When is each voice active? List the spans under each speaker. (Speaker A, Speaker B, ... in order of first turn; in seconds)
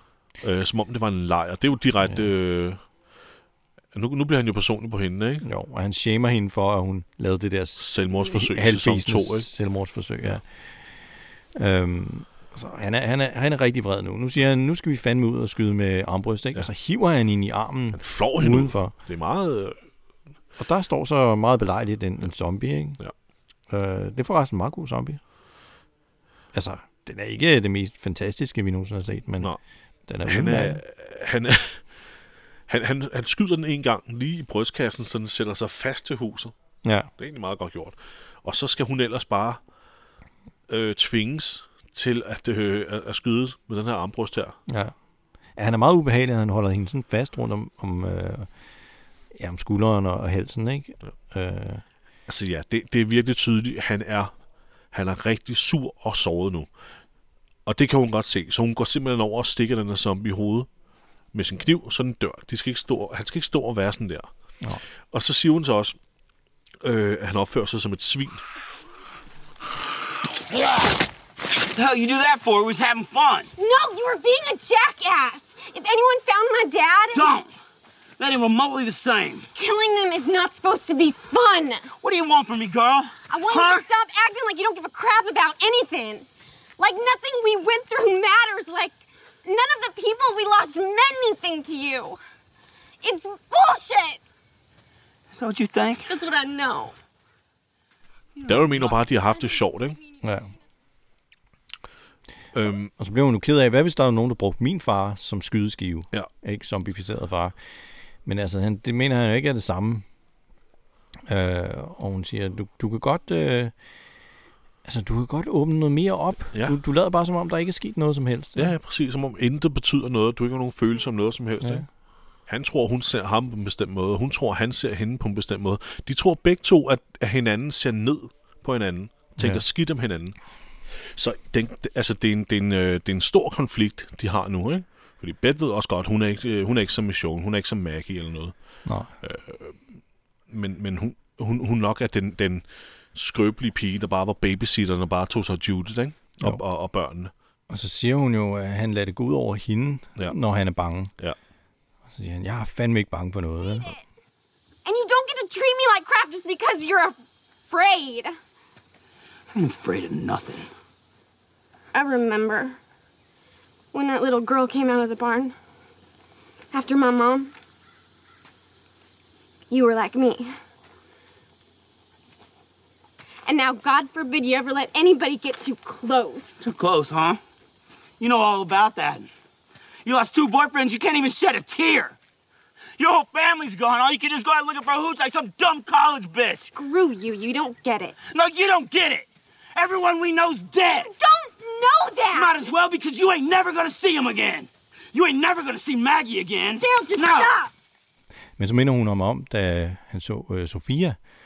Speaker A: 0.4-2.8, 3.9-5.4, 7.8-9.5, 17.9-19.8, 30.2-31.9, 32.7-36.5, 37.2-39.6, 40.7-44.6, 52.3-54.3, 54.9-56.7, 57.6-60.7, 61.3-64.3, 65.1-66.0, 66.8-68.4, 98.5-100.0, 102.5-102.9, 118.5-121.8, 122.5-130.3, 130.9-138.5, 139.2-139.8, 140.5-147.3
Speaker B: 5.4-10.4, 11.5-18.9, 20.6-23.0, 23.7-25.2, 26.5-29.5, 30.1-30.8, 36.8-37.1, 44.7-44.9, 45.5-48.5, 49.3-51.8, 100.2-100.5, 103.0-107.6, 108.2-110.0, 111.2-113.7, 114.8-118.7, 129.4-129.6, 138.8-139.1, 147.7-151.1, 152.1-153.9, 198.6-201.2
Speaker C: 70.5-70.9, 71.7-73.5, 77.1-77.5, 78.2-79.5, 82.0-83.8, 95.3-96.1, 159.5-160.7, 176.6-177.4, 178.2-179.3, 180.0-182.2, 183.0-186.7, 188.3-191.1, 192.3-197.5
Speaker D: 73.6-77.3, 79.5-81.9, 83.3-86.2, 86.8-92.2, 93.0-94.2, 96.1-97.0, 154.8-157.2, 157.7-158.3, 161.9-162.8, 163.9-165.5, 166.7-167.5, 169.7-170.5, 173.4-176.6, 186.7-188.2, 191.1-192.7, 196.8-197.7